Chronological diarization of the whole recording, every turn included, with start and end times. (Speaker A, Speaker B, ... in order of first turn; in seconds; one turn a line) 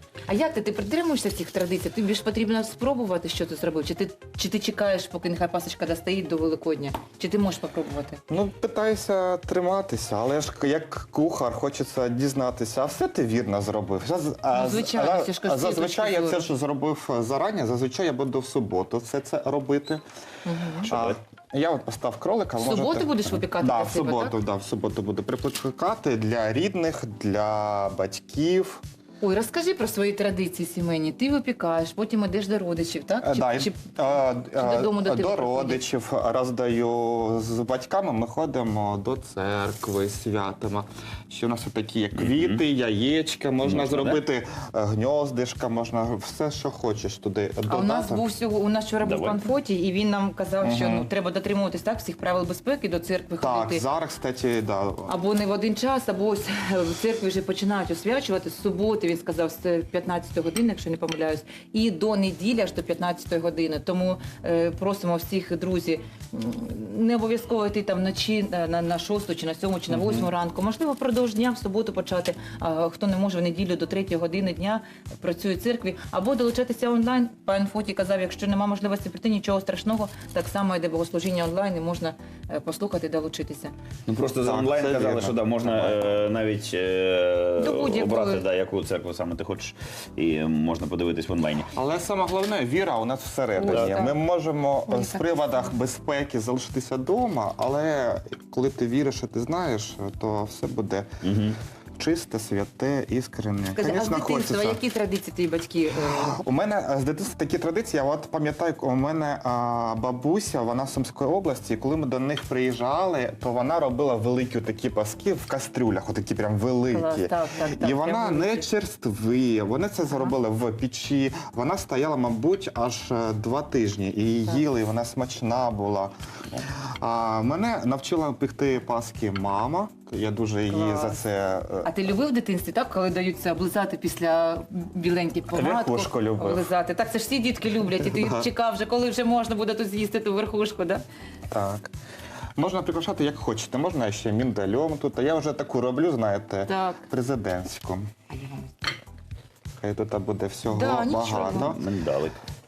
Speaker A: 0.3-8.2
Speaker B: 8.3-20.0
Speaker A: 14.5-16.5
Speaker A: 20.4-20.9
Speaker B: 20.8-28.8
Speaker C: 20.8-21.2
Speaker A: 22.6-24.4
Speaker A: 29.2-35.8
Speaker B: 33.2-48.2
Speaker C: 42.2-42.6
Speaker C: 43.6-44.2
Speaker A: 47.7-53.8
Speaker C: 49.0-49.4
Speaker B: 50.6-51.1
Speaker B: 53.4-55.1
Speaker A: 55.1-83.7
Speaker C: 84.1-91.7
Speaker B: 84.4-86.1
Speaker A: 87.6-88.5
Speaker B: 91.8-101.1
Speaker A: 93.6-94.2
Speaker C: 93.7-93.9
Speaker A: 94.9-95.8
Speaker C: 101.2-101.6
Speaker B: 102.0-104.8
Speaker A: 103.7-106.4
Speaker B: 106.0-126.1
Speaker A: 116.9-118.7
Speaker B: 127.0-131.9
Speaker A: 130.7-131.2
Speaker A: 131.8-141.0
Speaker B: 135.5-136.7
Speaker B: 138.1-138.5
Speaker B: 141.5-141.9
Speaker B: 142.6-148.1
Speaker A: 146.7-147.0
Speaker A: 148.3-148.7
Speaker B: 149.8-151.8
Speaker A: 150.7-151.7
Speaker C: 151.5-152.4